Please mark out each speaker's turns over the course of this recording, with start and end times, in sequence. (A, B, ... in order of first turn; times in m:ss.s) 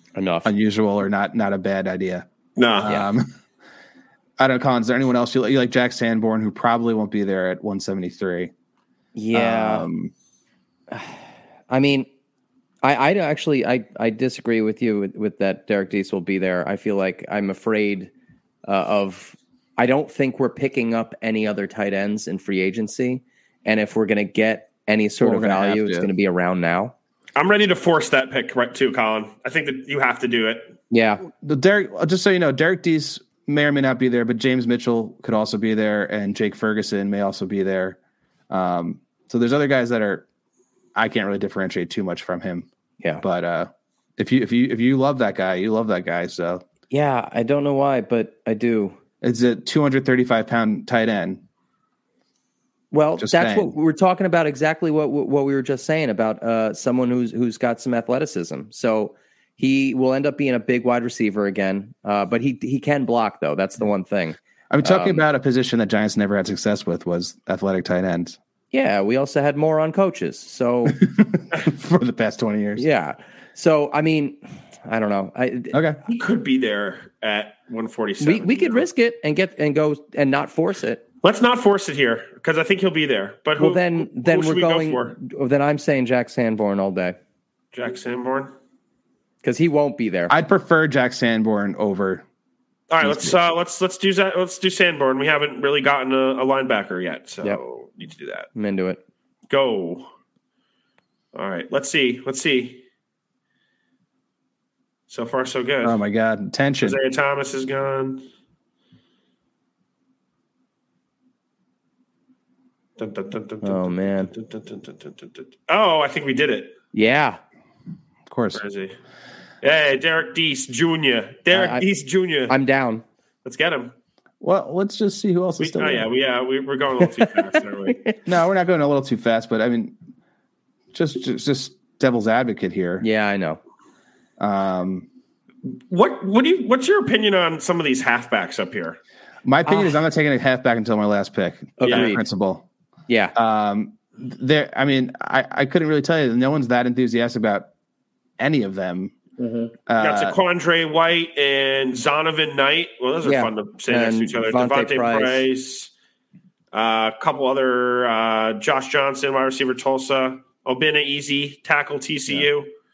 0:00.2-0:00.5 A
0:00.4-0:03.3 B
0:02.6-0:03.0 C
0:04.4-0:08.5 B
0:09.2-0:09.9 A
0:09.3-0:10.1 B
0:10.9-0:11.2 A
0:11.7-0:12.1 A
0:12.8-0:18.1 A
0:18.7-0:27.0 A
0:25.2-0:26.1 B
0:27.4-0:30.8 C
0:30.9-0:31.2 A
0:31.3-0:38.0 B
0:38.5-0:40.3 B
0:41.0-0:42.7 B
0:43.2-0:46.6 B
0:46.9-0:49.0 A
0:49.2-0:51.4 B
0:52.9-1:05.2 A
0:53.2-0:53.8 B
1:04.7-1:08.4 B
1:08.7-1:11.0 A
1:10.9-1:12.9 B
1:12.8-1:15.8 A
1:15.7-1:16.0 B
1:16.1-1:18.9 C
1:18.2-1:21.0 A
1:21.2-1:25.2 C
1:23.6-1:27.2 A
1:27.7-1:28.5 C
1:29.4-1:30.3 A
1:30.3-1:32.2 B
1:32.9-1:38.5 C
1:33.0-1:33.4 B
1:38.6-1:39.0 A
1:39.5-1:40.1 C
1:41.3-1:42.8 C
1:45.1-1:46.0 C
1:45.8-1:47.0 B
1:46.8-1:48.2 C
1:53.0-1:56.7 C
1:53.6-1:54.3 A
1:56.9-1:57.4 A
1:58.3-1:58.6 B
1:58.6-1:59.0 C
1:59.6-2:02.6 C
2:01.5-2:01.9 A
2:02.5-2:03.0 A
2:03.4-2:03.9 C
2:04.4-2:06.1 B
2:05.6-2:08.0 C
2:07.0-2:07.3 A
2:07.9-2:08.2 A
2:08.3-2:10.0 B
2:10.9-2:13.1 B
2:13.0-2:13.6 A
2:14.4-2:15.1 B
2:15.9-2:19.0 C
2:19.4-2:22.7 B
2:19.7-2:20.0 A
2:21.8-2:22.2 A
2:21.8-2:22.2 C
2:23.1-2:23.4 A
2:23.4-2:27.7 B
2:28.4-2:29.2 B
2:29.4-2:29.7 A
2:29.9-2:30.4 B
2:30.0-2:35.9 C
2:33.2-2:35.4 A
2:36.7-2:42.7 C